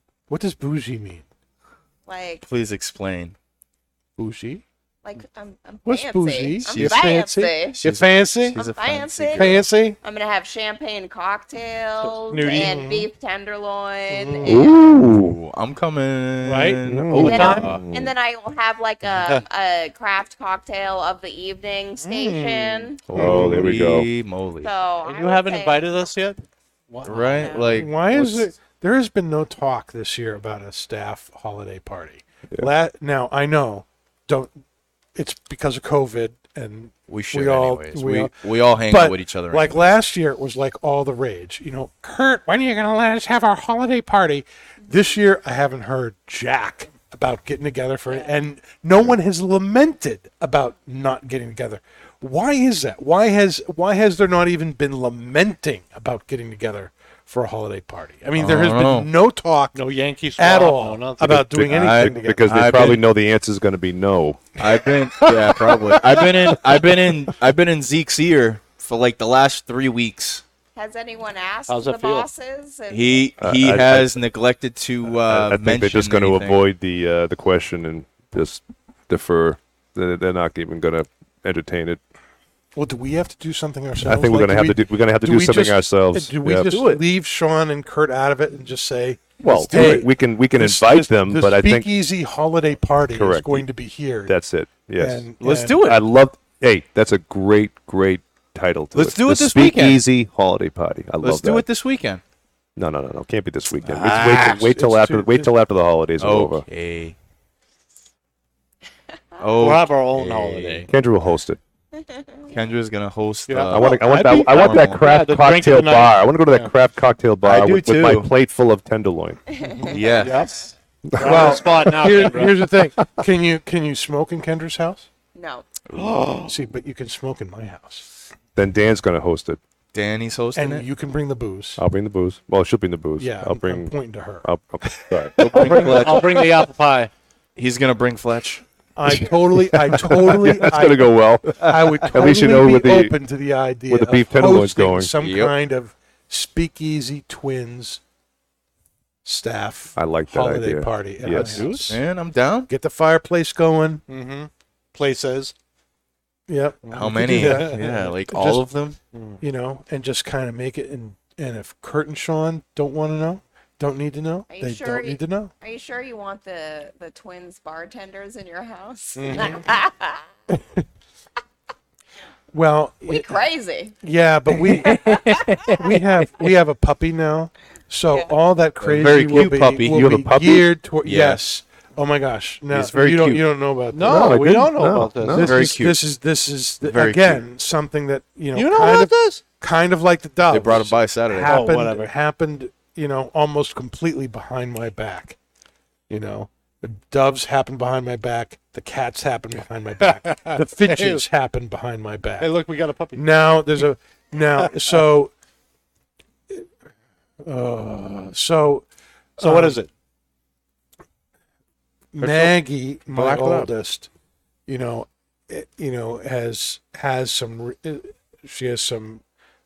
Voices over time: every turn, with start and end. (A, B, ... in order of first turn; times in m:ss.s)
0:00.3-0:01.2 A
0:02.0-0:02.4 B
0:02.4-0:03.4 C
0:04.2-0:04.6 A
0:05.0-0:07.8 B
0:05.8-0:08.6 A
0:06.6-0:07.0 C
0:07.7-0:09.7 C
0:08.5-0:14.9 B
0:09.3-0:10.0 A
0:12.3-0:13.1 A
0:14.1-0:14.6 A
0:14.4-0:15.4 D
0:14.9-0:17.8 C
0:16.5-0:17.6 E
0:16.9-0:18.1 D
0:17.2-0:17.6 A
0:17.2-0:23.0 B
0:19.1-0:19.4 E
0:22.0-0:23.7 A
0:23.1-0:24.7 C
0:23.1-0:24.1 D
0:24.6-0:25.8 B
0:25.0-0:28.4 E
0:27.0-0:27.9 C
0:27.1-0:27.8 B
0:27.7-0:34.6 A
0:35.1-0:59.8 A
0:37.1-0:40.0 C
0:58.3-0:59.1 C
0:59.7-1:01.3 E
1:00.4-1:02.7 A
1:01.2-1:04.5 D
1:01.7-1:03.0 C
1:04.6-1:10.4 C
1:05.2-1:06.8 A
1:10.8-1:13.3 B
1:11.7-1:12.3 E
1:12.9-1:16.6 C
1:13.4-1:14.2 D
1:15.2-1:22.0 D
1:22.7-1:34.3 A
1:24.0-1:26.7 D
1:26.6-1:27.0 C
1:29.4-1:31.9 D
1:29.8-1:30.0 C
1:33.1-1:33.7 D
1:34.2-1:35.3 D
1:35.0-1:35.8 A
1:35.4-1:36.0 C
1:35.8-1:41.6 D
1:38.9-1:40.0 C
1:41.2-1:42.2 C
1:42.8-1:46.6 D
1:43.8-1:44.7 C
1:44.4-1:45.5 A
1:46.2-1:47.2 C
1:49.4-1:50.9 C
1:49.6-1:50.9 E
1:50.9-1:51.6 D
1:52.0-1:52.4 B
1:52.5-1:55.2 C
1:53.5-1:56.7 E
1:53.7-1:59.4 D
1:57.4-1:58.3 C
1:59.5-2:00.5 B
1:59.7-2:02.7 E
1:59.8-2:00.5 C
2:01.1-2:01.5 D
2:01.2-2:05.1 A
2:05.3-2:05.6 B
2:05.9-2:06.2 C
2:05.9-2:06.5 E
2:06.4-2:08.1 A
2:08.6-2:09.6 D
2:09.9-2:10.9 C
2:10.5-2:11.8 A
2:11.8-2:16.1 D
2:13.2-2:15.9 A
2:15.4-2:16.4 C
2:15.6-2:17.1 E
2:17.6-2:18.6 C
2:19.0-2:28.0 A
2:19.1-2:23.2 D
2:23.9-2:25.1 D
2:25.2-2:25.5 C
2:29.2-2:32.0 A
2:30.0-2:31.7 D
2:31.4-2:31.8 E
2:31.7-2:32.7 C
2:32.7-2:34.0 A
2:34.1-2:35.5 E
2:36.5-2:38.7 A
2:36.9-2:37.9 E
2:36.9-2:39.0 C
2:39.1-2:39.4 E
2:39.4-2:45.5 A
2:44.5-2:50.3 B
2:49.2-2:49.6 A
2:50.5-2:50.8 A
2:52.5-2:53.4 A
2:53.1-2:54.0 B
2:54.0-3:04.6 A
2:54.6-2:56.5 E
2:58.8-3:00.1 C
2:59.8-3:00.7 D
3:01.0-3:01.4 C
3:02.7-3:03.4 C
3:03.9-3:05.6 E
3:04.0-3:05.5 D
3:05.3-3:15.4 A
3:05.4-3:06.0 C
3:06.8-3:07.4 C
3:08.5-3:09.4 E
3:10.5-3:11.7 C
3:11.4-3:12.1 E
3:16.1-3:22.5 A
3:20.0-3:21.2 E
3:22.4-3:23.8 E
3:23.1-3:25.3 A
3:24.6-3:25.0 E
3:27.4-3:28.8 A
3:29.4-3:29.8 A
3:29.4-3:29.9 E
3:32.1-3:34.1 A
3:32.2-3:33.7 C
3:34.7-3:39.2 A